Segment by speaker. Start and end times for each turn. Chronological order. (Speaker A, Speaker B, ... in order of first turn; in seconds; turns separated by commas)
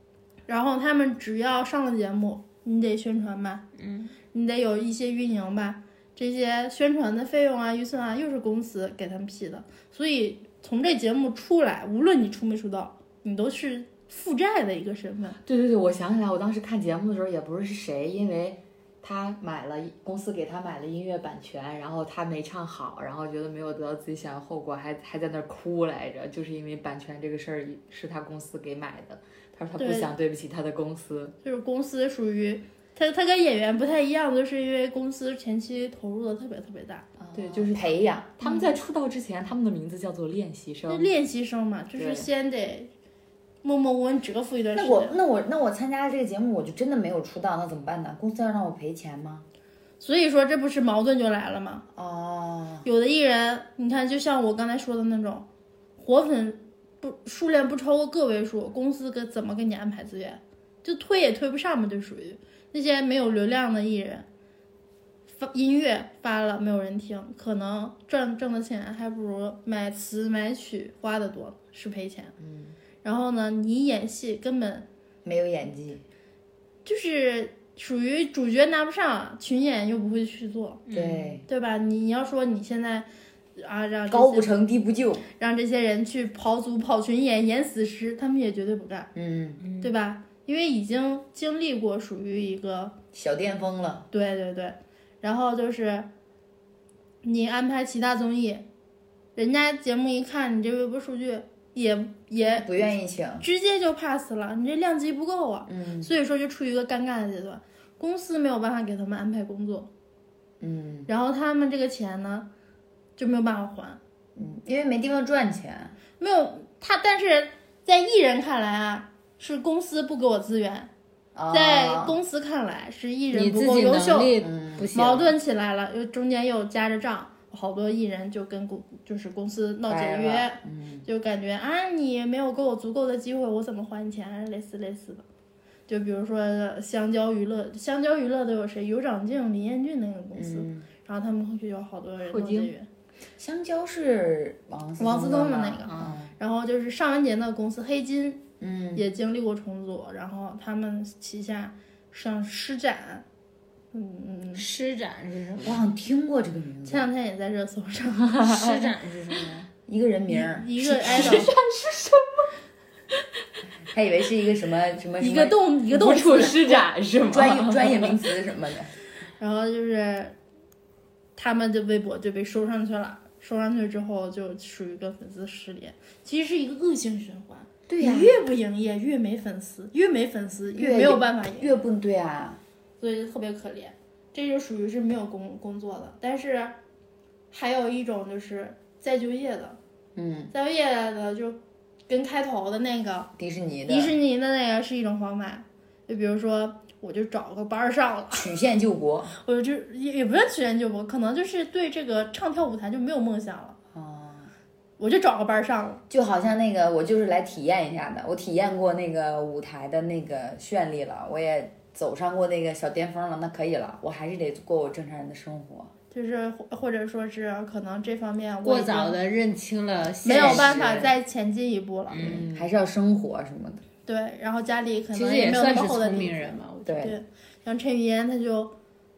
Speaker A: 0.5-3.6, Speaker B: 3.8-4.1, Speaker A: 4.3-15.4, Speaker C: 15.4-31.3, Speaker A: 29.8-30.1, Speaker A: 31.4-37.0, Speaker C: 37.3-41.1, Speaker D: 37.3-38.4, Speaker A: 40.9-42.9, Speaker C: 42.0-42.3, Speaker A: 43.6-45.1, Speaker D: 44.7-49.5, Speaker A: 50.0-51.8, Speaker D: 51.9-52.9, Speaker A: 52.8-55.5, Speaker A: 56.0-64.2, Speaker A: 65.4-72.3, Speaker D: 72.4-72.7, Speaker A: 73.0-74.9, Speaker D: 75.2-76.0, Speaker A: 76.8-80.8, Speaker B: 80.9-81.3, Speaker D: 80.9-81.5, Speaker A: 81.5-84.5, Speaker D: 84.1-85.2, Speaker A: 85.4-89.1, Speaker D: 89.1-89.6, Speaker B: 89.6-89.9, Speaker A: 89.8-93.0, Speaker D: 93.1-94.1, Speaker A: 94.1-96.1, Speaker A: 97.2-98.7, Speaker A: 99.3-109.9, Speaker D: 102.5-103.5, Speaker D: 105.7-106.1, Speaker D: 110.6-111.1, Speaker A: 111.1-112.5, Speaker A: 113.2-114.0, Speaker D: 114.3-115.9, Speaker A: 116.2-120.9, Speaker D: 121.3-122.2, Speaker A: 121.5-124.4, Speaker B: 123.3-125.3, Speaker D: 124.4-124.9, Speaker A: 124.9-135.2, Speaker D: 129.9-131.1, Speaker A: 135.9-142.9, Speaker D: 140.3-140.8, Speaker C: 142.2-142.7, Speaker D: 143.4-146.3, Speaker A: 145.0-153.2, Speaker C: 145.9-146.2, Speaker D: 148.6-149.1, Speaker A: 153.9-154.7, Speaker B: 154.5-155.8, Speaker D: 155.6-157.1, Speaker A: 156.8-158.4, Speaker C: 158.3-158.7, Speaker B: 158.4-159.7, Speaker D: 159.9-161.4, Speaker A: 160.3-161.5, Speaker C: 161.0-162.5, Speaker D: 163.9-165.6, Speaker A: 165.2-166.9, Speaker C: 165.9-168.2, Speaker D: 167.3-168.9, Speaker A: 169.4-170.3, Speaker A: 171.3-181.8, Speaker D: 177.9-178.4, Speaker D: 180.7-182.6, Speaker A: 183.0-186.7, Speaker A: 187.5-189.8, Speaker D: 190.1-190.5, Speaker A: 190.5-193.3, Speaker D: 193.4-194.1, Speaker A: 193.9-198.5, Speaker D: 198.3-199.3, Speaker A: 199.4-203.8, Speaker D: 203.9-204.5, Speaker A: 205.0-206.0, Speaker D: 206.1-215.9, Speaker A: 216.1-219.2, Speaker B: 218.6-221.0, Speaker A: 220.2-222.4, Speaker D: 220.3-221.1, Speaker B: 222.1-222.4, Speaker D: 222.2-223.8, Speaker C: 222.2-222.7, Speaker A: 224.0-228.7, Speaker B: 225.1-227.0, Speaker D: 226.8-227.2